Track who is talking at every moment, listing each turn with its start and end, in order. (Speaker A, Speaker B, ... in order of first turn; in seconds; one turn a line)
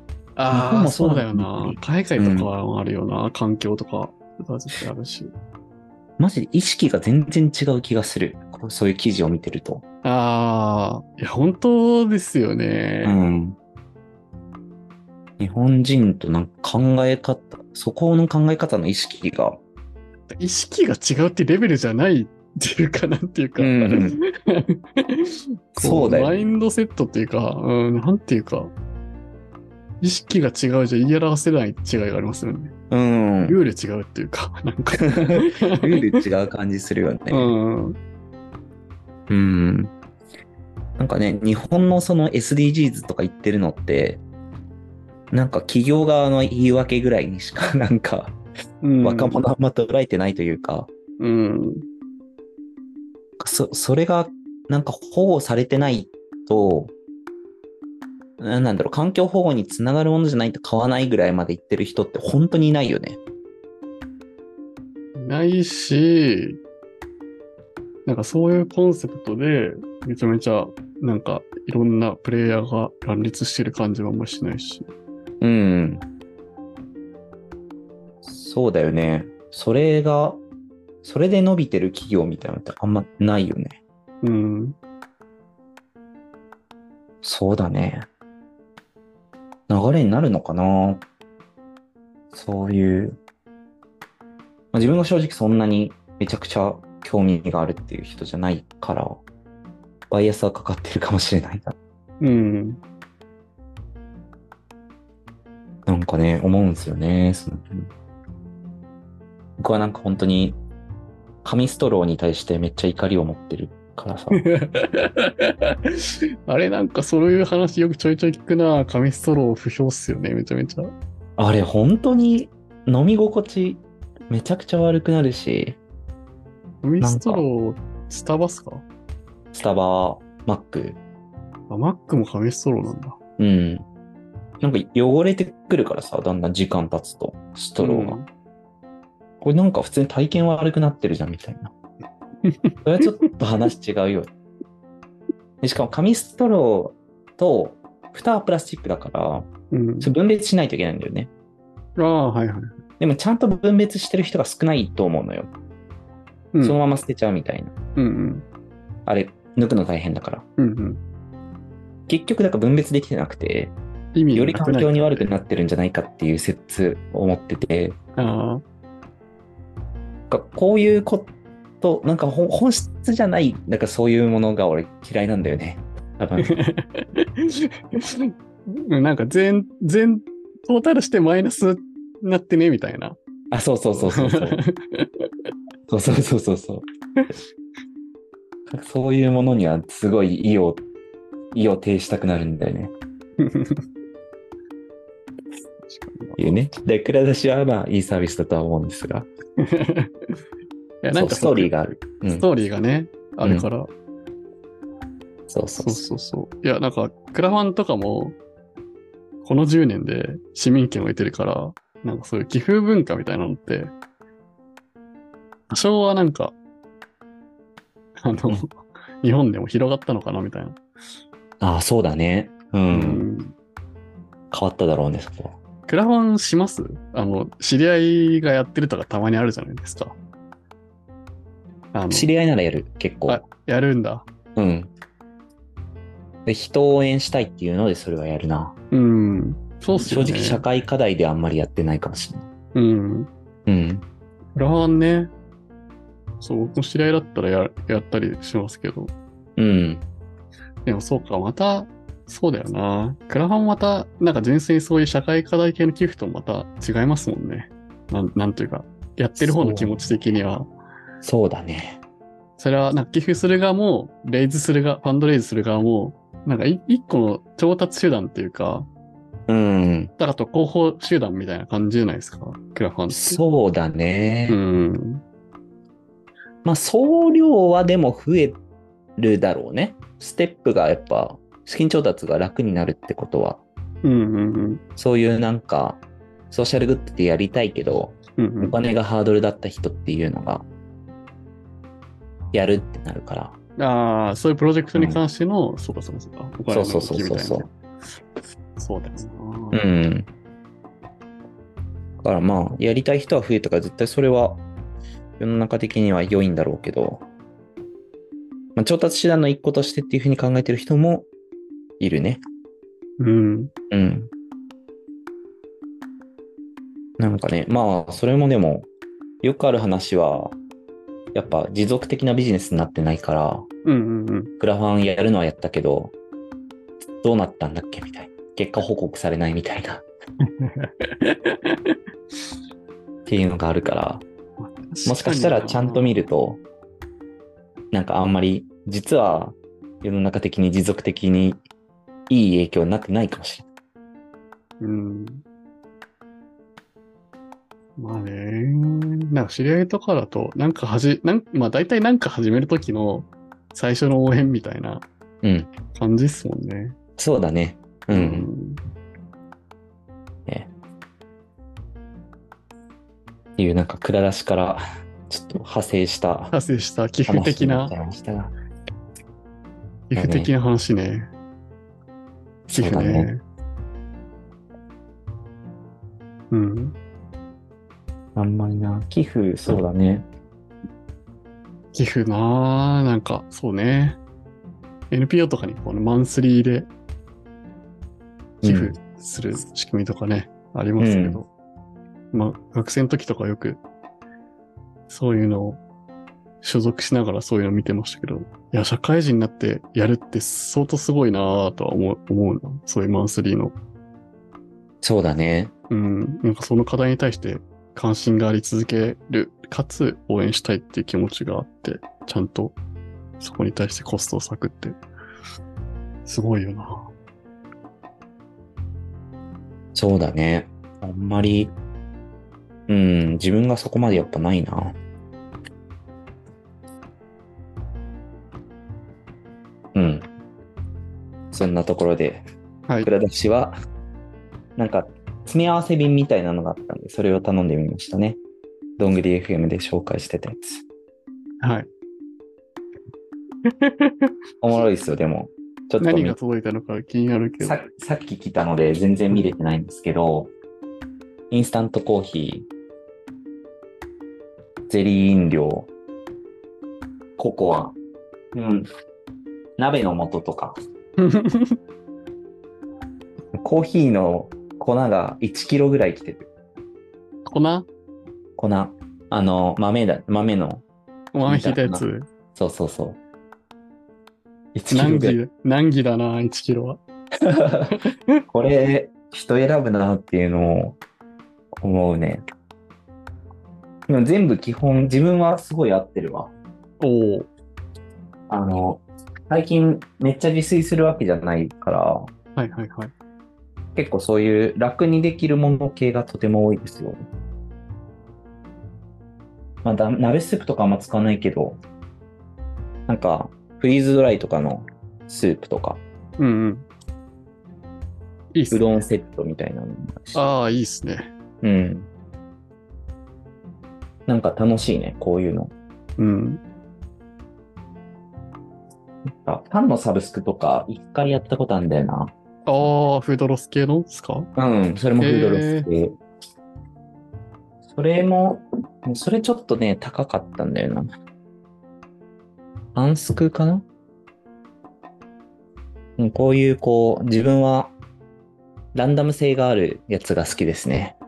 Speaker A: 0.4-5.3
Speaker B: 0.5-2.5
Speaker B: 6.2-9.8
Speaker A: 10.0-13.2
Speaker B: 13.0-13.6
Speaker B: 15.4-19.6
Speaker A: 20.3-28.7
Speaker B: 23.6-24.2
Speaker B: 25.8-26.4
Speaker A: 30.0-32.7
Speaker B: 32.9-33.6
Speaker A: 33.4-36.2
Speaker B: 35.0-37.5
Speaker A: 37.3-38.0
Speaker B: 39.3-39.9
Speaker B: 41.0-44.2
Speaker B: 45.3-48.4
Speaker A: 48.8-49.4
Speaker B: 49.0-50.9
Speaker A: 51.2-51.8
Speaker B: 53.4-56.9
Speaker B: 58.4-63.2
Speaker A: 65.2-66.6
Speaker A: 68.0-74.9
Speaker B: 75.4-76.0
Speaker B: 78.2-80.4
Speaker B: 81.0-83.8
Speaker A: 84.2-84.8
Speaker B: 87.2-88.1
Speaker B: 89.7-91.0
Speaker B: 92.3-93.2
Speaker B: 94.7-99.2
Speaker B: 100.1-101.8
Speaker A: 102.2-102.8
Speaker B: 105.8-107.9
Speaker B: 109.6-110.6
Speaker B: 111.4-114.4
Speaker A: 114.3-120.9
Speaker B: 121.4-125.8
Speaker A: 126.8-128.8
Speaker B: 127.0-127.4
Speaker B: 129.5-131.0
Speaker A: 131.7-133.2
Speaker B: 133.4-133.8
Speaker B: 134.6-138.2
Speaker A: 137.8-138.3
Speaker B: 139.4-141.7
Speaker A: 142.4-143.3
Speaker B: 142.8-144.3
Speaker B: 145.6-149.5
Speaker A: 149.7-150.1
Speaker B: 150.0-151.3
Speaker A: 152.0-152.8
Speaker B: 153.0-155.5
Speaker A: 156.5-156.8
Speaker B: 156.6-157.7
Speaker A: 157.9-158.4
Speaker B: 159.1-160.4
Speaker A: 160.6-161.0
Speaker B: 162.1-163.7
Speaker A: 164.1-165.3
Speaker B: 164.3-168.0
Speaker A: 168.2-168.6
Speaker B: 170.3-176.5
Speaker A: 176.4-183.2
Speaker B: 183.5-184.6
Speaker A: 184.0-185.3
Speaker B: 185.9-186.8
Speaker B: 188.7-190.8
Speaker B: 191.5-192.9
Speaker A: 193.4-193.8
Speaker A: 195.9-196.4
Speaker B: 196.4-199.3
Speaker A: 199.6-200.3
Speaker A: 201.0-203.9
Speaker B: 201.1-202.4
Speaker B: 205.5-206.0
Speaker A: 205.8-208.4
Speaker A: 209.4-213.9
Speaker A: 215.7-216.6
Speaker A: 218.2-220.8
Speaker B: 221.6-223.2
Speaker A: 222.9-223.5
Speaker B: 224.5-225.6
Speaker A: 225.9-230.2
Speaker A: 231.9-232.3
Speaker B: 232.1-233.4
Speaker A: 233.3-234.3
Speaker B: 234.6-234.9
Speaker B: 236.4-238.7
Speaker A: 238.9-240.6
Speaker B: 239.9-242.5
Speaker A: 242.7-243.3
Speaker B: 243.7-244.0
Speaker A: 244.6-245.3
Speaker A: 246.4-249.1
Speaker B: 249.6-250.0
Speaker A: 250.8-260.7
Speaker B: 259.4-260.2
Speaker B: 261.2-262.0
Speaker A: 262.6-268.9
Speaker B: 269.5-270.1
Speaker A: 270.2-273.4
Speaker B: 273.1-274.6
Speaker A: 274.5-275.2
Speaker B: 276.6-278.6
Speaker B: 279.2-283.6
Speaker A: 284.0-284.8
Speaker B: 285.0-290.6
Speaker A: 288.4-288.8
Speaker B: 292.5-293.6
Speaker A: 293.8-297.7
Speaker B: 294.9-295.2
Speaker B: 296.7-297.7
Speaker A: 298.8-299.8
Speaker B: 299.7-300.3
Speaker B: 302.2-304.6
Speaker B: 305.4-307.2
Speaker B: 308.8-311.3
Speaker B: 312.0-312.4
Speaker A: 313.2-313.7
Speaker B: 313.9-314.3
Speaker B: 317.2-318.9
Speaker B: 319.4-320.6
Speaker B: 321.3-323.7
Speaker A: 323.8-324.5
Speaker B: 324.6-326.1
Speaker B: 327.2-330.0
Speaker A: 330.4-332.0
Speaker B: 333.2-334.2
Speaker A: 334.6-336.1
Speaker B: 335.0-336.6
Speaker B: 337.9-341.6
Speaker B: 342.3-343.7
Speaker A: 344.8-345.4
Speaker A: 348.0-355.1
Speaker B: 355.4-355.7
Speaker A: 355.9-356.9
Speaker B: 357.2-358.5
Speaker A: 358.1-358.8
Speaker B: 363.6-366.5
Speaker A: 366.5-367.9
Speaker B: 367.3-368.5
Speaker A: 370.1-371.3
Speaker B: 370.1-370.5
Speaker B: 372.7-373.3
Speaker A: 372.7-373.4
Speaker A: 376.5-376.9
Speaker B: 378.3-380.2
Speaker A: 381.9-384.2
Speaker A: 385.1-386.9
Speaker B: 388.6-388.9
Speaker A: 388.6-391.5
Speaker B: 391.0-391.4
Speaker A: 392.3-393.8
Speaker A: 395.1-395.8
Speaker A: 396.6-403.8
Speaker B: 405.0-405.7
Speaker A: 405.9-412.8
Speaker A: 413.4-415.0
Speaker A: 416.2-417.1
Speaker B: 419.9-421.7
Speaker B: 422.9-425.0
Speaker B: 429.9-430.3
Speaker B: 431.5-432.4
Speaker B: 433.0-433.7
Speaker B: 434.8-438.4
Speaker B: 439.0-440.8
Speaker A: 441.6-441.9
Speaker A: 443.6-444.3
Speaker B: 444.6-446.4
Speaker A: 446.0-447.8
Speaker B: 447.6-450.5
Speaker B: 451.5-452.7
Speaker B: 454.9-455.9
Speaker B: 457.4-457.9
Speaker B: 458.5-458.9
Speaker B: 459.8-460.7
Speaker A: 461.2-461.8
Speaker B: 463.5-466.5
Speaker A: 467.4-467.9
Speaker B: 468.6-470.8
Speaker A: 471.3-472.3
Speaker B: 471.4-473.2
Speaker B: 474.7-475.4
Speaker A: 474.9-477.0
Speaker B: 477.4-477.9
Speaker A: 477.9-478.4
Speaker B: 478.5-481.0
Speaker B: 481.7-482.4
Speaker B: 484.1-486.5
Speaker A: 487.0-487.5
Speaker B: 488.5-492.3
Speaker A: 492.6-493.1
Speaker B: 493.9-497.2
Speaker B: 499.8-501.8
Speaker B: 503.1-506.0
Speaker A: 506.4-506.9
Speaker A: 508.5-509.0
Speaker B: 508.7-510.4
Speaker A: 510.3-511.3
Speaker B: 511.6-512.1
Speaker B: 514.3-515.7
Speaker A: 516.2-516.6
Speaker B: 519.2-522.3
Speaker A: 522.6-524.5
Speaker B: 524.5-526.2
Speaker A: 525.2-525.9
Speaker B: 527.9-531.1
Speaker B: 532.9-533.8
Speaker B: 536.2-537.9
Speaker B: 538.9-541.1